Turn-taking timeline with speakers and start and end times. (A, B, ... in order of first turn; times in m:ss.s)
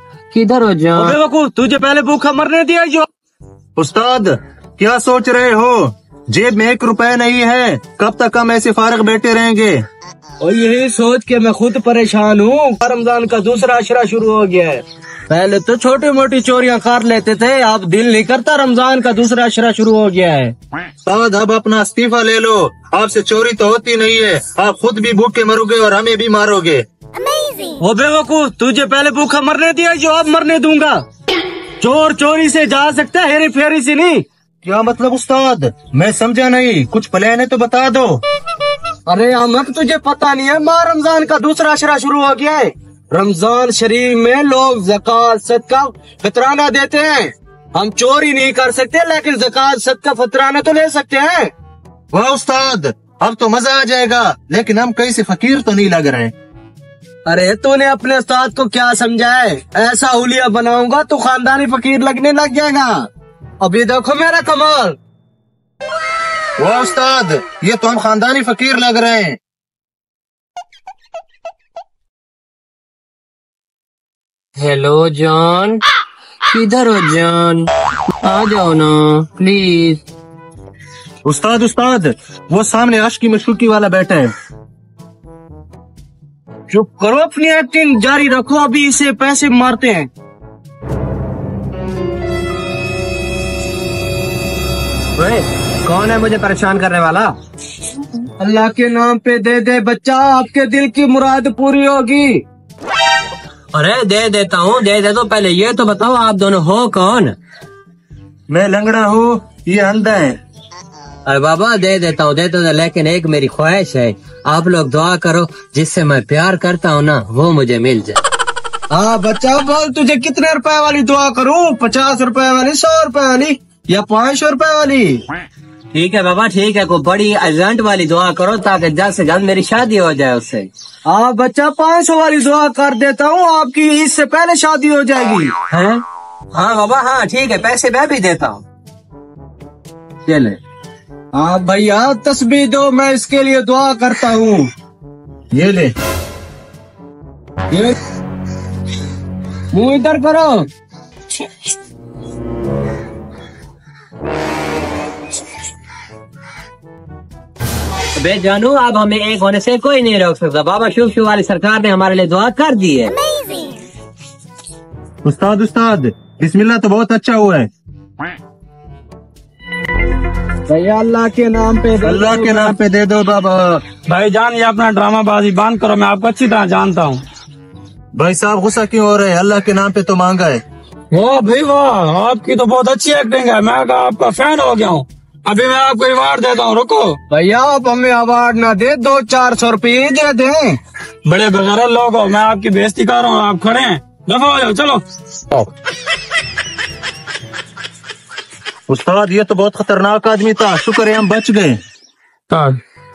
0:00.3-0:01.1 A
0:00.9-0:03.1 B
0:03.8-0:09.8 C
0:10.4-0:20.5 B
0:21.0-0:26.8 C
0:27.8-0:31.0 B
0:31.8-0:34.2 B
0:34.6-0:38.2 C
0:39.1-0:51.5 B
0:52.1-0:56.3 C
0:57.2-1:03.1 B
1:03.6-1:05.0 B
1:06.6-1:09.4 C
1:14.6-1:15.8 A
1:16.5-1:17.7 A
1:18.2-1:20.0 A
1:21.2-1:24.3 C
1:26.7-1:30.1 B
1:35.2-1:37.3 A
1:38.4-1:42.4 B
1:43.7-1:47.4 A
1:48.5-1:50.4 C
1:51.2-1:58.2 A
1:58.9-2:05.2 B
2:05.9-2:10.7 A
2:11.0-2:15.5 B
2:15.7-2:18.6 A
2:20.2-2:20.6 A
2:21.3-2:24.7 B
2:25.5-2:25.9 C
2:29.7-2:30.7 B
2:38.2-2:43.3 A
2:45.2-2:47.7 C
2:50.7-2:52.8 B
2:52.0-2:53.8 C
2:54.1-2:57.2 D
2:58.1-3:00.6 C
3:01.1-3:07.2 D
3:07.3-3:10.8 B
3:11.2-3:15.0 D
3:18.9-3:21.8 C
3:22.5-3:22.8 D